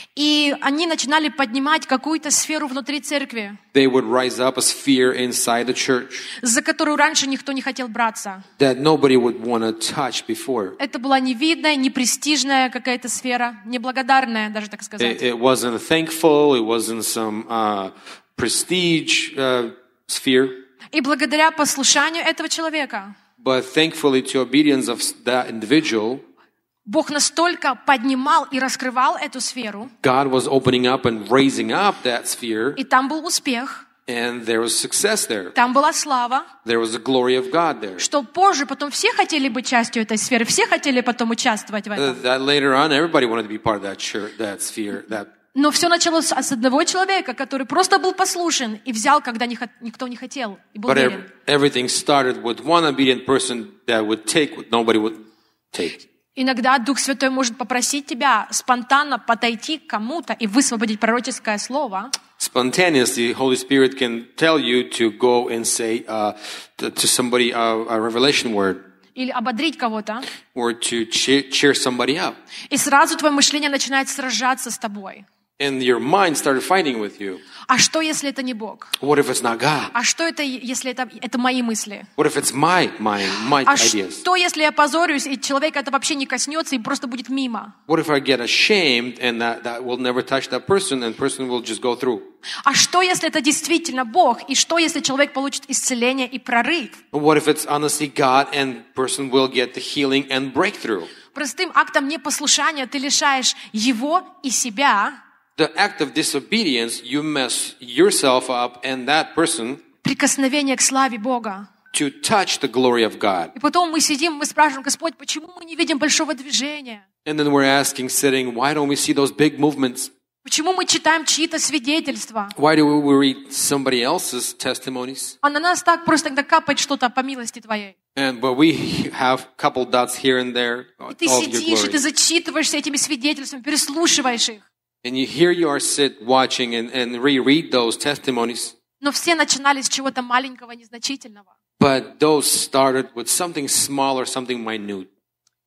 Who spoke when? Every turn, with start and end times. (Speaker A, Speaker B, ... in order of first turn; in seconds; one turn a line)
Speaker A: 0.2-3.6
Speaker B: 3.7-6.3
Speaker A: 6.4-8.5
Speaker B: 8.6-10.8
Speaker A: 10.8-15.2
Speaker B: 15.0-20.6
Speaker A: 20.9-23.2
Speaker B: 23.4-26.2
Speaker A: 26.9-29.9
Speaker B: 30.0-32.8
Speaker A: 32.8-33.9
Speaker B: 34.1-35.6
Speaker A: 35.6-36.5
Speaker B: 36.6-38.1
Speaker A: 38.0-42.2
Speaker B: 42.0-45.3
Speaker A: 45.5-51.3
Speaker B: 50.9-55.2
Speaker B: 55.7-56.1
Speaker A: 56.4-62.1
Speaker B: 62.4-68.8
Speaker A: 69.2-70.3
Speaker B: 70.5-72.4
Speaker A: 72.7-75.3
Speaker B: 75.6-77.4
Speaker A: 77.7-79.0
Speaker B: 79.0-79.9
Speaker A: 79.9-82.1
Speaker B: 82.2-84.2
Speaker A: 83.6-87.8
Speaker B: 87.9-92.3
Speaker A: 92.6-97.0
Speaker B: 97.1-101.1
Speaker A: 101.3-105.2
Speaker B: 105.6-109.8
Speaker A: 110.0-111.7
Speaker B: 111.9-113.5
Speaker A: 113.6-117.0
Speaker B: 117.2-120.1
Speaker A: 120.4-122.5
Speaker B: 122.5-125.4
Speaker A: 125.4-128.0
Speaker B: 128.2-132.0
Speaker A: 131.1-134.6
Speaker B: 135.0-138.8
Speaker A: 139.0-141.5
Speaker B: 141.8-145.1